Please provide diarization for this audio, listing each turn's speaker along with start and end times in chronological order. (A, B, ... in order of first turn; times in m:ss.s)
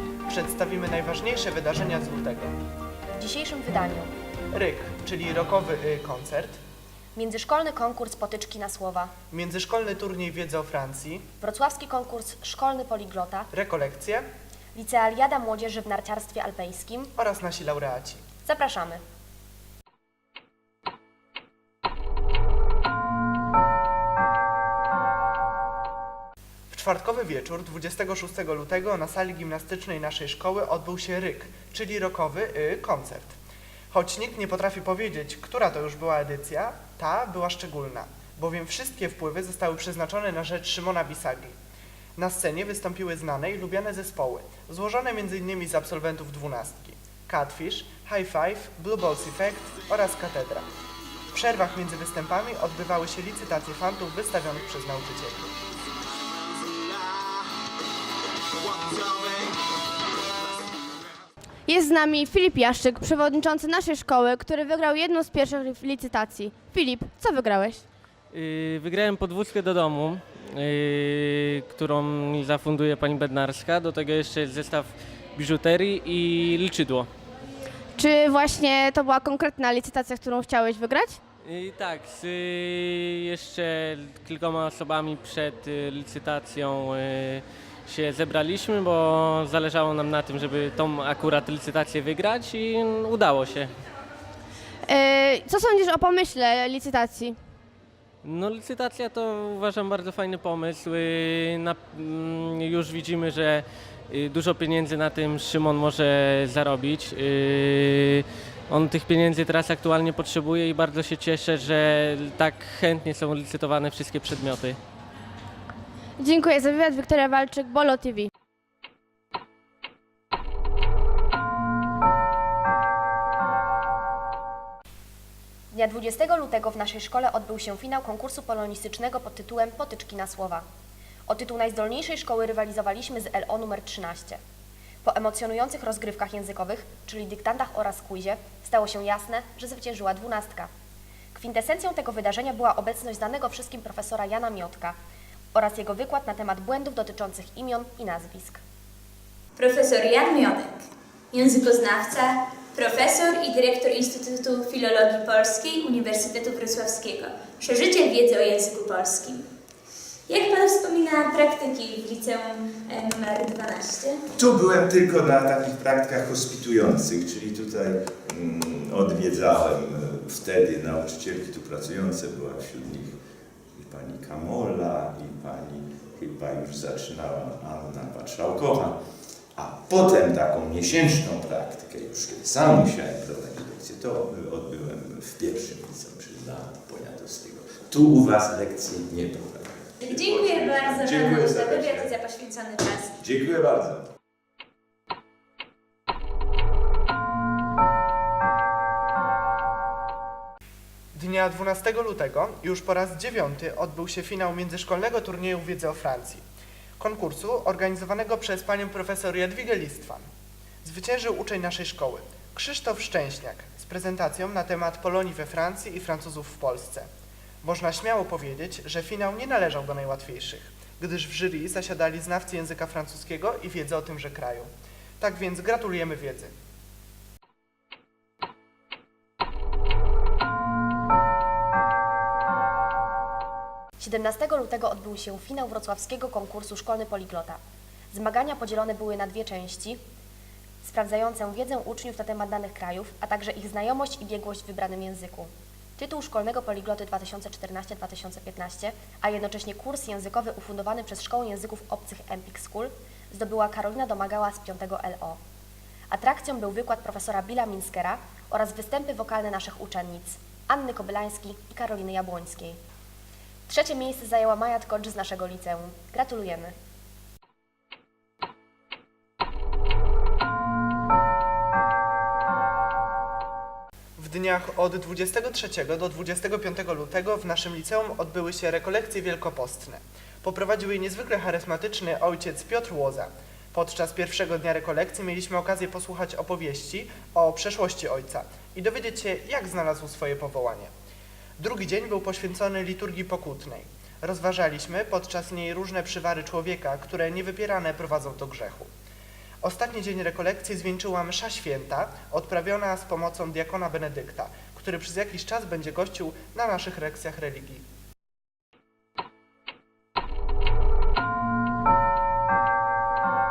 0:00.3-0:02.6 A
0:03.2-0:04.1 B
0:04.5-0:06.6 A
0:07.2-0:09.1 B
0:09.3-0:11.3 A
0:11.4-0:13.5 B
0:13.5-0:14.3 A
0:14.8-0:17.1 B
0:17.2-0:18.3 A
0:18.4-0:19.0 B
0:26.7-0:33.4 A
0:33.9-0:41.6 A
0:42.2-0:50.7 A
0:51.3-0:55.6 A
1:01.7-1:07.8 C
1:08.3-1:17.1 D
1:18.0-1:21.2 C
1:21.4-1:33.7 D
1:34.9-1:37.4 C
1:38.2-1:54.8 D
1:56.2-1:58.3 C
2:05.7-2:10.7 B
2:11.3-2:14.4 B
2:15.0-2:20.7 B
2:21.3-2:25.0 B
2:25.5-2:28.6 B
2:29.6-2:39.4 E
2:40.3-2:44.2 E
2:44.3-2:53.2 F
2:53.8-2:59.0 F
2:59.6-3:12.1 F
3:10.0-3:13.2 E
3:13.2-3:14.1 F
3:21.1-3:26.4 A
3:27.0-3:30.3 A
3:30.8-3:37.1 A
3:37.6-3:46.5 A
3:54.0-3:57.6 B
3:58.1-4:00.0 B
4:00.8-4:15.4 B
4:16.1-4:22.8 B
4:23.7-4:26.7 B
4:34.2-4:50.9 A
4:51.6-4:58.9 A
4:59.6-5:07.8 A